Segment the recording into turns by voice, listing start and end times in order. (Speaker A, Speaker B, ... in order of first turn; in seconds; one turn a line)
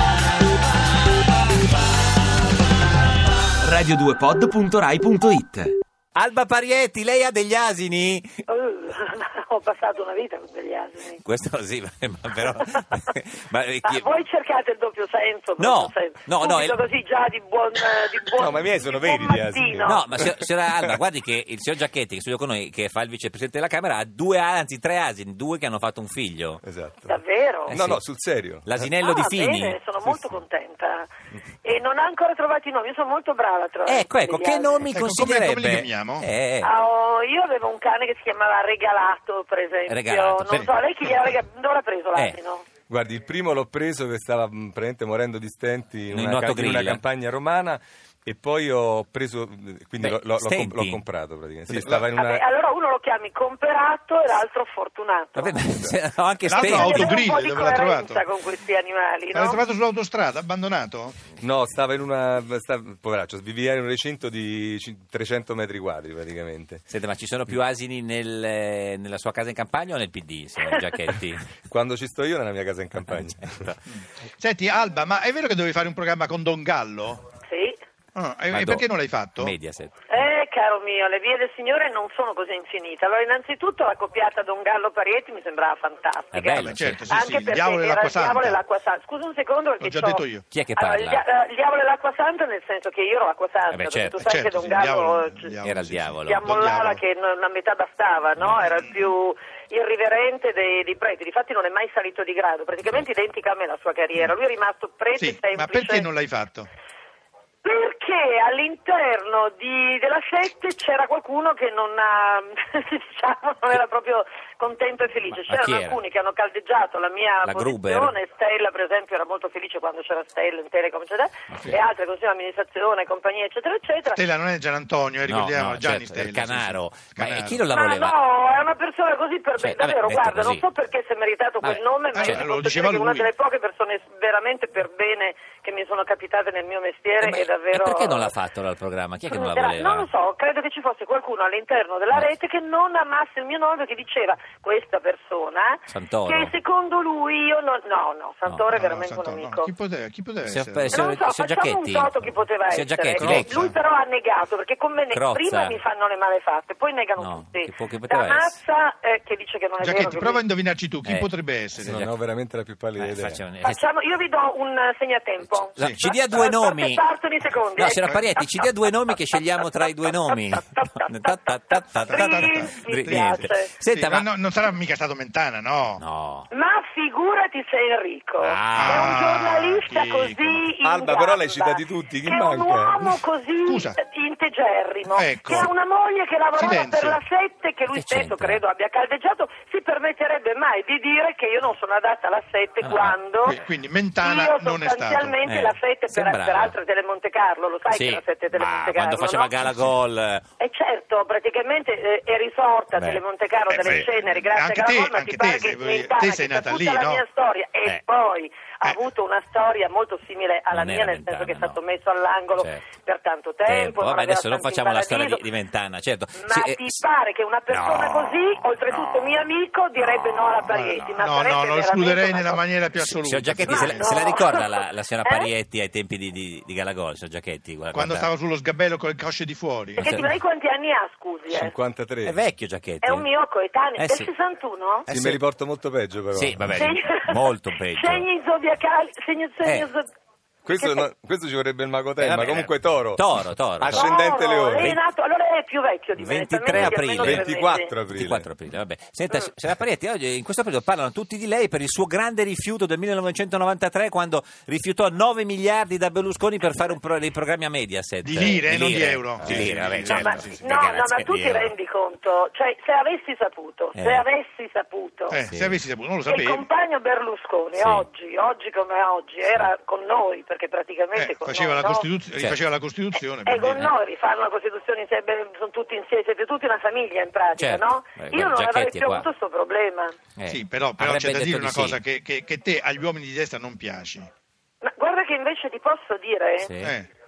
Speaker A: 3.6-8.4
Speaker B: 8.5-11.2
Speaker A: 11.2-14.1
Speaker B: 13.8-20.3
Speaker A: 15.6-16.8
Speaker C: 18.3-20.5
Speaker A: 19.8-26.6
Speaker C: 26.6-27.2
Speaker B: 27.1-27.8
Speaker A: 27.7-28.0
Speaker C: 27.7-28.8
Speaker A: 28.6-29.8
Speaker B: 29.0-31.1
Speaker B: 31.6-34.9
Speaker A: 33.9-36.7
Speaker D: 34.9-36.3
Speaker B: 36.6-42.7
Speaker A: 39.9-40.7
Speaker C: 42.9-52.4
Speaker A: 46.1-47.0
Speaker A: 50.0-51.0
Speaker B: 52.1-55.6
Speaker A: 55.4-57.1
Speaker D: 56.5-58.2
Speaker B: 56.6-59.6
Speaker D: 59.3-61.2
Speaker C: 61.4-66.8
Speaker A: 66.9-71.5
Speaker C: 71.7-73.6
Speaker A: 73.0-73.8
Speaker D: 73.9-77.2
Speaker B: 77.5-77.8
Speaker D: 78.2-79.5
Speaker A: 78.5-78.8
Speaker A: 79.4-80.2
Speaker B: 80.1-90.2
Speaker A: 86.3-87.2
Speaker D: 86.6-88.6
Speaker D: 89.8-90.4
Speaker A: 90.5-91.2
Speaker B: 90.8-95.5
Speaker A: 93.7-94.2
Speaker D: 94.2-97.0
Speaker A: 95.6-96.4
Speaker B: 96.3-106.1
Speaker D: 105.2-106.7
Speaker B: 107.6-124.2
Speaker A: 115.3-116.0
Speaker A: 117.5-118.2
Speaker D: 124.2-127.6
Speaker A: 125.3-128.2
Speaker B: 127.7-138.3
Speaker A: 129.6-130.7
Speaker A: 131.6-132.4
Speaker D: 132.2-133.3
Speaker A: 137.2-140.1
Speaker B: 139.3-149.7
Speaker A: 145.9-146.5
Speaker D: 148.7-151.0
Speaker A: 150.5-153.7
Speaker B: 150.9-160.4
Speaker D: 153.2-153.8
Speaker A: 155.1-155.8
Speaker A: 157.2-158.5
Speaker D: 159.8-162.0
Speaker A: 161.1-162.1
Speaker C: 161.9-163.4
Speaker A: 163.0-163.8
Speaker B: 163.6-173.7
Speaker A: 165.4-167.0
Speaker A: 167.8-174.3
Speaker D: 172.1-176.0
Speaker A: 176.0-176.5
Speaker B: 176.5-193.6
Speaker A: 178.4-179.2
Speaker D: 178.7-180.7
Speaker C: 180.8-183.2
Speaker D: 183.7-184.0
Speaker D: 185.1-185.7
Speaker D: 186.6-187.2
Speaker A: 187.9-188.6
Speaker A: 192.8-193.2
Speaker D: 193.4-195.4
Speaker B: 194.2-199.6
Speaker A: 195.5-196.8
Speaker A: 197.9-200.4
Speaker D: 199.6-199.9
Speaker B: 200.6-215.4
Speaker A: 202.9-203.2
Speaker D: 203.7-207.2
Speaker A: 210.7-211.8
Speaker A: 213.7-217.0
Speaker B: 216.4-222.6
Speaker A: 217.7-219.5
Speaker A: 220.1-220.5
Speaker D: 220.7-224.4
Speaker A: 223.0-228.3
Speaker B: 223.7-225.5
Speaker D: 227.9-230.1
Speaker A: 230.0-230.3
Speaker B: 230.0-231.7
Speaker C: 231.5-232.4
Speaker A: 232.2-233.3
Speaker B: 233.0-235.1
Speaker A: 234.0-234.3
Speaker A: 235.1-235.4
Speaker C: 235.1-236.9
Speaker A: 236.3-238.3
Speaker B: 236.8-240.1
Speaker C: 240.7-243.2
Speaker B: 240.7-241.1
Speaker A: 242.2-244.1
Speaker C: 243.8-245.0
Speaker B: 243.9-247.9
Speaker A: 246.2-247.5
Speaker C: 246.7-248.5
Speaker A: 248.1-261.7
Speaker D: 258.2-260.8
Speaker B: 259.5-265.4
Speaker A: 263.9-264.2
Speaker D: 265.3-266.7
Speaker A: 265.5-265.8
Speaker B: 266.3-272.1
Speaker A: 267.8-268.1
Speaker D: 271.1-273.9
Speaker A: 272.4-272.6
Speaker B: 273.4-280.2
Speaker A: 277.6-279.3
Speaker A: 280.4-282.0
Speaker D: 280.5-284.3
Speaker B: 284.8-286.7
Speaker A: 286.6-286.9
Speaker D: 286.8-287.1